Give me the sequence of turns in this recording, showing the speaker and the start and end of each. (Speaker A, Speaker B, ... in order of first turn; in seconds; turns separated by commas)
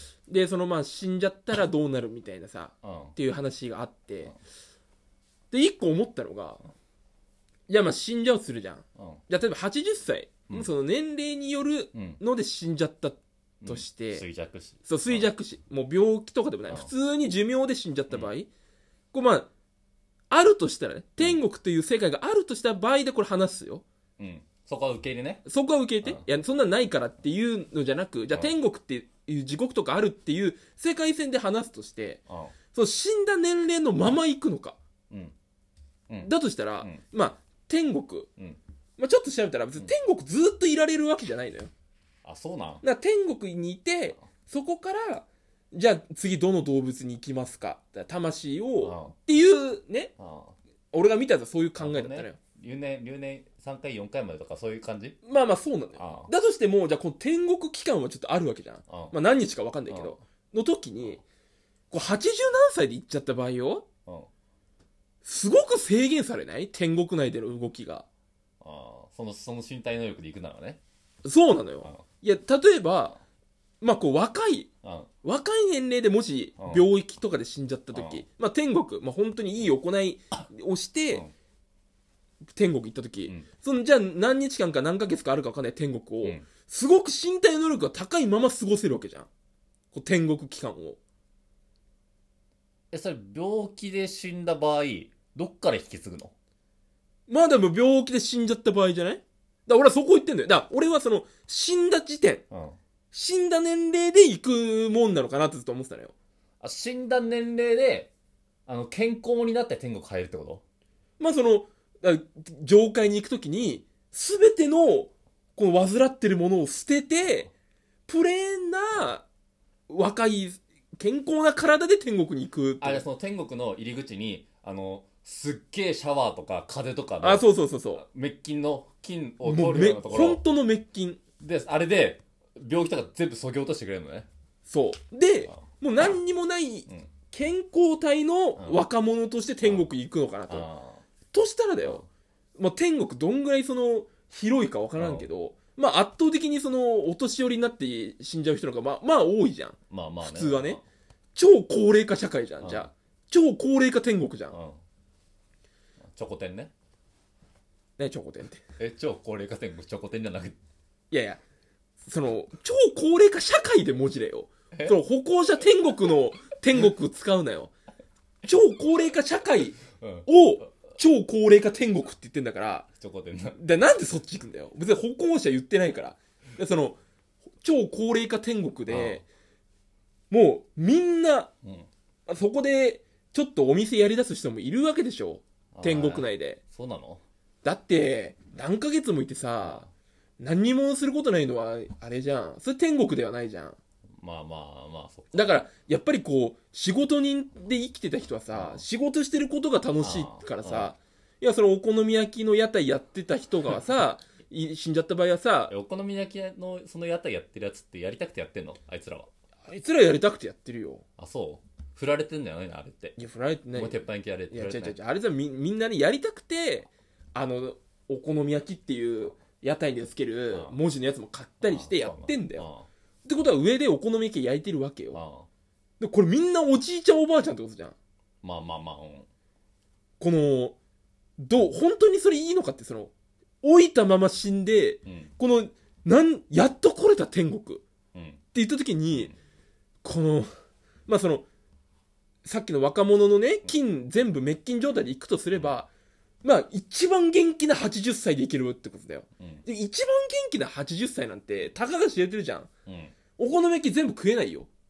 Speaker A: 0.3-4.3, Speaker B: 2.8-3.2, Speaker A: 5.5-6.6, Speaker A: 7.7-14.2, Speaker B: 9.0-9.2, Speaker B: 11.9-12.2, Speaker B: 13.6-15.3, Speaker A: 14.8-18.5, Speaker A: 19.1-19.5, Speaker A: 20.3-23.8, Speaker B: 24.2-25.4, Speaker A: 25.4-32.2, Speaker B: 32.3-32.5, Speaker A: 32.7-34.8, Speaker B: 36.1-37.0, Speaker A: 36.2-38.3, Speaker A: 39.0-41.7, Speaker B: 42.2-42.8, Speaker A: 42.8-50.1, Speaker B: 48.8-49.1, Speaker B: 50.2-50.6, Speaker A: 50.9-52.4, Speaker B: 51.8-55.2, Speaker A: 55.2-61.2, Speaker B: 56.0-56.3, Speaker B: 58.9-59.1, Speaker B: 59.9-60.2, Speaker A: 61.9-63.9, Speaker A: 65.2-68.1, Speaker B: 68.6-70.8, Speaker A: 71.2-73.2, Speaker A: 73.8-74.7, Speaker B: 74.8-75.1, Speaker A: 75.2-81.2, Speaker B: 76.6-76.9, Speaker B: 77.9-78.2, Speaker A: 82.6-89.3, Speaker A: 89.9-91.0, Speaker B: 92.9-96.3, Speaker A: 97.3-102.4, Speaker B: 102.5-102.8, Speaker A: 103.1-106.1, Speaker B: 106.6-108.1, Speaker B: 108.7-110.6, Speaker A: 111.2-117.5, Speaker A: 118.1-119.3, Speaker A: 119.9-123.0, Speaker B: 122.8-130.4, Speaker A: 127.2-128.0, Speaker A: 129.4-131.2, Speaker B: 131.4-134.3, Speaker A: 134.7-140.7, Speaker B: 138.6-138.8, Speaker B: 139.6-139.9, Speaker B: 140.5-141.0, Speaker A: 141.3-142.1, Speaker A: 142.6-150.8, Speaker B: 145.0-145.3, Speaker B: 149.9-150.8, Speaker A: 151.3-154.6, Speaker B: 152.6-152.9, Speaker B: 154.5-154.8, Speaker B: 156.2-156.7, Speaker A: 158.0-158.6, Speaker B: 158.8-160.6, Speaker A: 161.1-161.4, Speaker A: 162.1-167.7, Speaker A: 168.4-172.9, Speaker B: 170.0-170.3, Speaker B: 173.0-173.6, Speaker A: 173.6-177.0, Speaker A: 177.6-179.3, Speaker B: 178.9-179.2, Speaker A: 180.3-181.5, Speaker A: 182.3-186.6, Speaker B: 185.7-187.2, Speaker A: 187.6-189.9, Speaker A: 190.4-193.8, Speaker B: 194.2-195.6, Speaker A: 195.3-205.7, Speaker B: 198.5-198.8, Speaker B: 200.0-200.9, Speaker B: 205.7-209.3, Speaker A: 209.7-211.0, Speaker B: 211.2-213.2, Speaker A: 213.2-222.7, Speaker B: 213.7-215.0, Speaker B: 220.5-220.8, Speaker B: 221.6-222.9, Speaker A: 223.3-225.2, Speaker B: 225.1-225.5, Speaker A: 226.0-228.0, Speaker B: 228.4-229.3, Speaker A: 230.2-230.8, Speaker A: 231.4-237.8, Speaker B: 235.1-235.3, Speaker B: 238.1-238.4, Speaker A: 238.5-239.3, Speaker A: 240.0-240.5, Speaker A: 241.1-241.5, Speaker A: 242.4-245.9, Speaker A: 246.4-252.7, Speaker B: 249.4-249.7, Speaker B: 252.9-253.2, Speaker A: 253.4-254.7